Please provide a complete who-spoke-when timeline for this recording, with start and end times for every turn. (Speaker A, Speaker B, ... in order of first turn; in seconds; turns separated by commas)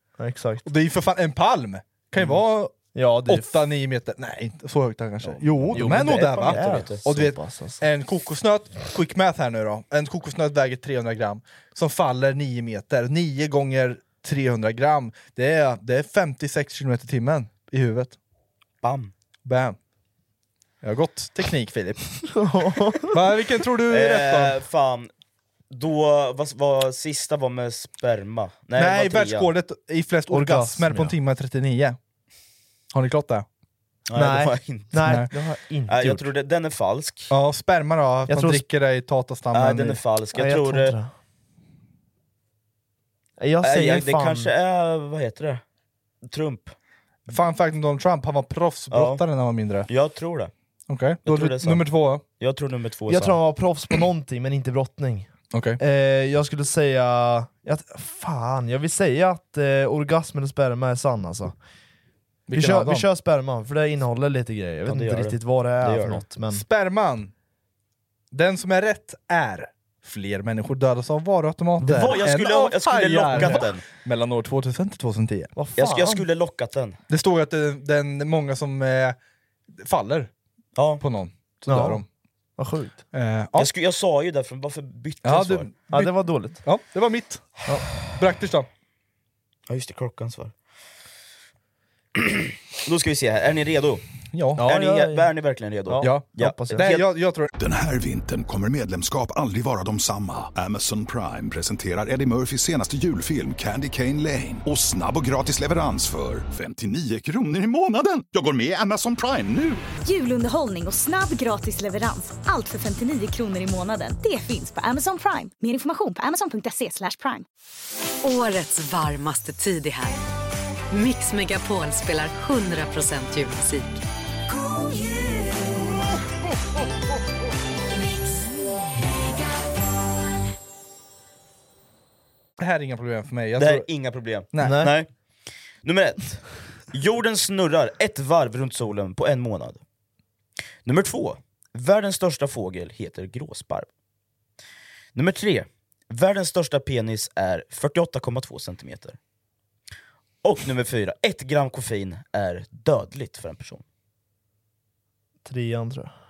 Speaker A: 0.2-0.7, Speaker B: 0.6-18.2, Speaker A: 2.9-3.5, Speaker C: 5.2-7.0, Speaker A: 5.7-7.8, Speaker C: 18.8-19.1, Speaker B: 19.4-19.8, Speaker B: 20.8-22.0, Speaker A: 22.3-23.2, Speaker B: 23.1-24.6, Speaker C: 23.9-25.1, Speaker C: 25.7-29.5, Speaker B: 28.8-32.0, Speaker A: 30.3-31.1, Speaker B: 32.9-33.5, Speaker C: 34.1-35.2, Speaker A: 34.1-36.3, Speaker B: 35.0-35.3, Speaker C: 35.9-37.3, Speaker B: 37.3-40.0, Speaker A: 38.3-38.6, Speaker C: 39.5-41.0, Speaker A: 40.3-41.1, Speaker A: 43.4-44.5, Speaker C: 43.6-45.6, Speaker C: 46.2-46.7, Speaker B: 47.3-49.9, Speaker C: 48.9-49.2, Speaker C: 49.9-50.5, Speaker B: 50.9-52.2, Speaker C: 51.2-53.4, Speaker A: 53.1-55.3, Speaker B: 55.5-55.8, Speaker A: 55.8-61.5, Speaker B: 62.5-63.1, Speaker A: 62.5-66.6, Speaker C: 64.8-66.2, Speaker B: 66.5-67.3, Speaker B: 68.3-75.5, Speaker C: 71.8-73.8, Speaker A: 73.3-73.6, Speaker A: 75.5-76.2, Speaker C: 75.8-77.0, Speaker B: 77.1-79.2, Speaker B: 79.8-80.3, Speaker C: 80.8-81.0, Speaker B: 81.0-82.0, Speaker A: 81.7-82.0, Speaker A: 82.6-83.0, Speaker B: 83.1-83.7, Speaker C: 83.6-85.7, Speaker B: 85.2-88.7, Speaker A: 85.9-86.6, Speaker C: 89.7-90.5, Speaker C: 92.1-94.0, Speaker B: 94.3-94.7, Speaker A: 94.6-95.3, Speaker C: 94.6-97.0, Speaker A: 95.8-96.8, Speaker B: 96.0-97.5, Speaker D: 97.6-109.8, Speaker E: 110.0-117.4, Speaker F: 118.2-120.2, Speaker F: 120.9-124.0, Speaker B: 132.6-133.9, Speaker C: 133.6-135.1, Speaker B: 134.5-134.8, Speaker A: 134.6-134.9, Speaker C: 135.8-139.8, Speaker C: 140.8-143.9, Speaker C: 145.1-149.2, Speaker C: 150.4-153.8, Speaker A: 155.4-156.2